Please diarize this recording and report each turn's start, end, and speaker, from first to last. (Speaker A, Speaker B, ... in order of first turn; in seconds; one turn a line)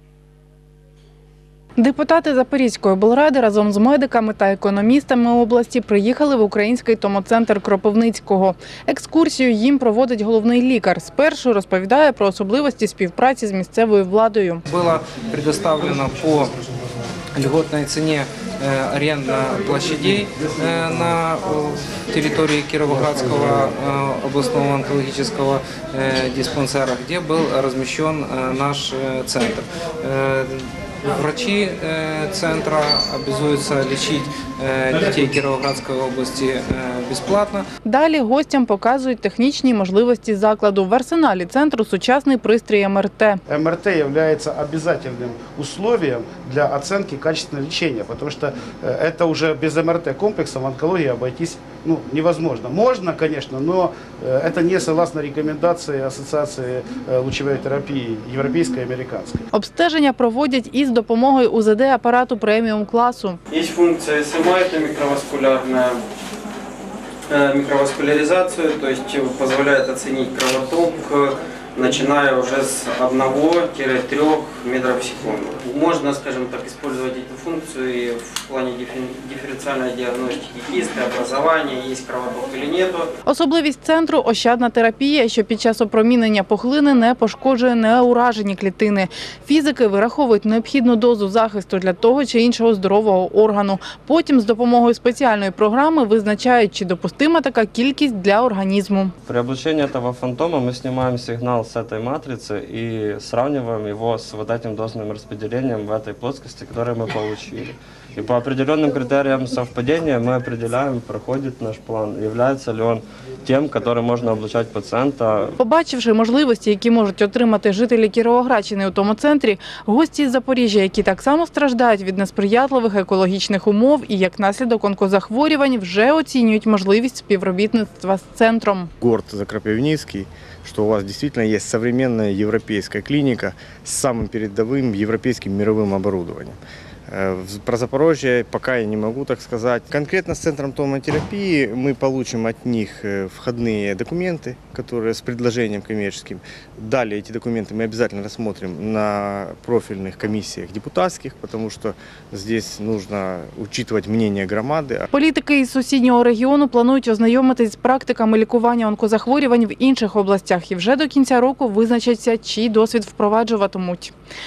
Speaker A: 1.8-14.7
Speaker B: 14.7-16.5
Speaker B: 17.3-37.6
Speaker A: 37.8-43.4
Speaker C: 43.5-59.5
Speaker A: 59.5-63.4
Speaker D: 63.5-66.0
Speaker D: 67.3-83.1
Speaker A: 83.3-99.1
Speaker E: 99.2-115.5
Speaker A: 115.6-128.9
Speaker F: 129.0-155.1
Speaker A: 155.1-164.1